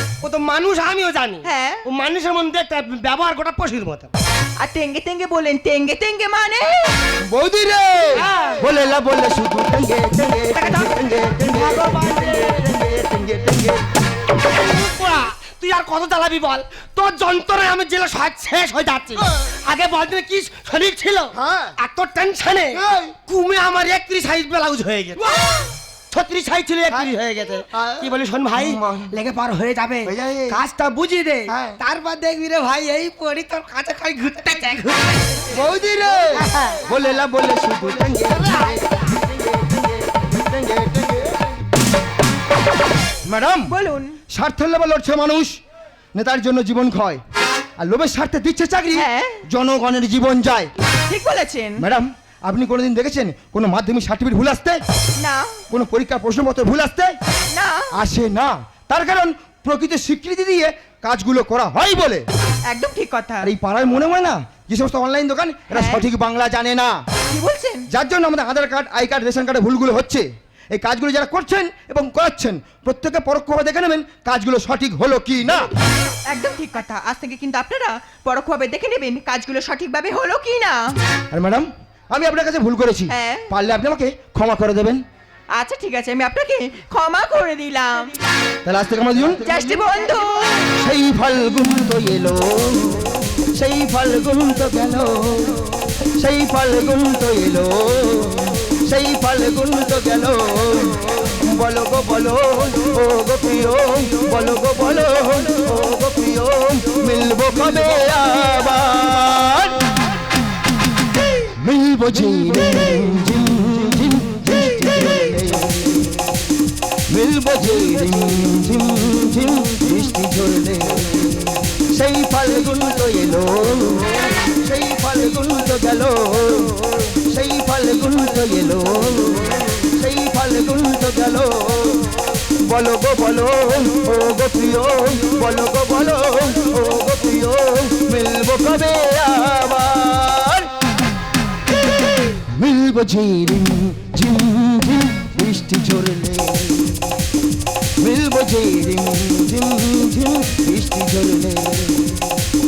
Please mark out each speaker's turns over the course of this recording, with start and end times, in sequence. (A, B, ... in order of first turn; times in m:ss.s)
0:00.2-0:04.1 A
0:01.4-0:01.8 B
0:04.6-0:07.0 B
0:07.2-0:13.9 C
0:08.2-0:08.6 A
0:10.5-0:12.6 A
0:14.4-0:25.2 A
0:21.3-0:21.7 C
0:22.7-0:23.2 C
0:25.3-0:25.6 C
0:26.1-0:35.4 A
0:27.7-0:29.1 C
0:30.1-0:30.6 C
0:31.5-0:31.8 C
0:35.5-0:41.4 C
0:36.3-0:36.9 A
0:38.4-0:38.9 A
0:43.2-0:43.7 C
0:43.7-0:44.2 B
0:44.3-0:45.6 C
0:46.1-0:47.2 C
0:47.8-0:50.7 C
0:48.9-0:49.4 B
0:51.1-0:51.8 B
0:51.8-0:54.8 C
0:55.2-0:55.6 B
0:55.7-0:57.1 C
0:57.5-0:57.9 B
0:57.9-1:02.2 C
1:02.7-1:03.5 B
1:03.4-1:07.0 C
1:05.7-1:06.0 B
1:07.3-1:07.9 B
1:07.9-1:15.7 C
1:16.3-1:21.0 B
1:21.3-1:25.0 C
1:23.1-1:23.5 B
1:25.5-1:28.2 B
1:28.6-1:29.8 C
1:29.4-1:30.6 B
1:30.8-1:35.6 C
1:36.2-1:49.8 C
1:51.6-1:56.3 C
1:57.1-2:12.1 C
2:12.6-2:20.7 C
2:22.5-2:27.1 C
2:28.0-2:32.3 C